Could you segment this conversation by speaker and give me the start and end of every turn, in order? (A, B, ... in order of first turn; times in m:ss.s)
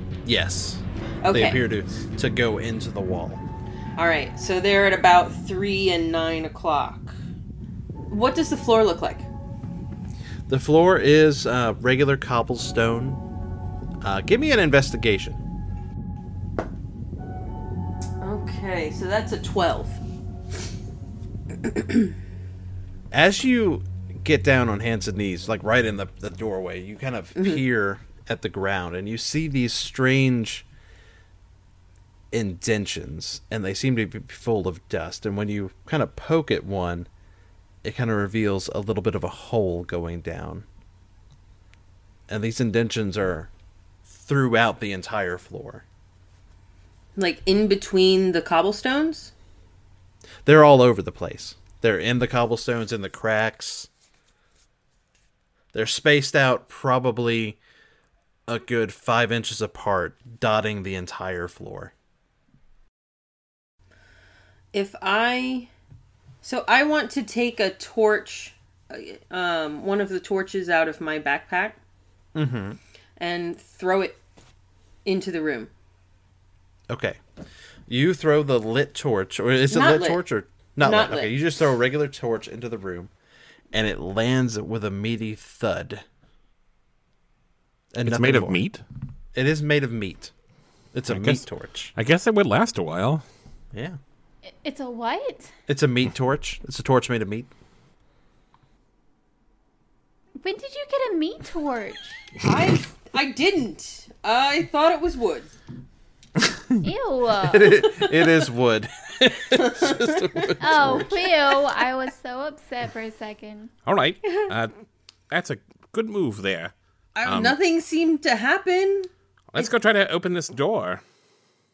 0:00.2-0:03.4 A
0:01.2-0:01.6 B
0:04.0-0:07.1 B
0:08.1-0:09.3 B
0:10.5-0:13.2 A
0:14.0-0:15.4 A
0:18.2-0:20.0 B
0:21.6-0:22.1 B
0:23.1-0:30.6 A
0:32.3-0:37.1 A
0:37.8-0:40.6 A
0:42.3-0:43.5 A
0:44.1-0:45.8 A
0:47.2-0:49.3 B
0:50.4-0:53.9 A
0:55.7-0:57.6 A
0:58.5-1:01.9 A
1:04.7-1:05.7 B
1:06.4-1:11.8 B
1:12.3-1:12.8 A
1:13.2-1:14.2 B
1:15.0-1:15.7 B
1:16.9-1:17.2 A
1:17.9-1:23.1 A
1:19.7-1:20.2 B
1:20.8-1:21.3 B
1:23.7-1:26.0 A
1:27.9-1:28.6 A
1:28.0-1:28.8 C
1:29.3-1:30.3 A
1:30.9-1:31.9 A
1:31.1-1:31.4 C
1:31.9-1:33.2 C
1:33.7-1:34.0 A
1:34.4-1:35.5 D
1:35.7-1:37.5 A
1:40.4-1:42.2 D
1:42.4-1:45.5 B
1:46.8-1:47.8 D
1:47.4-1:51.3 A
1:47.8-1:48.4 B
1:49.5-1:50.5 B
1:50.6-1:53.7 D
1:53.8-1:54.7 C
1:55.3-1:56.7 C
1:57.2-1:59.7 B
1:57.2-1:57.6 C
1:59.5-2:01.0 C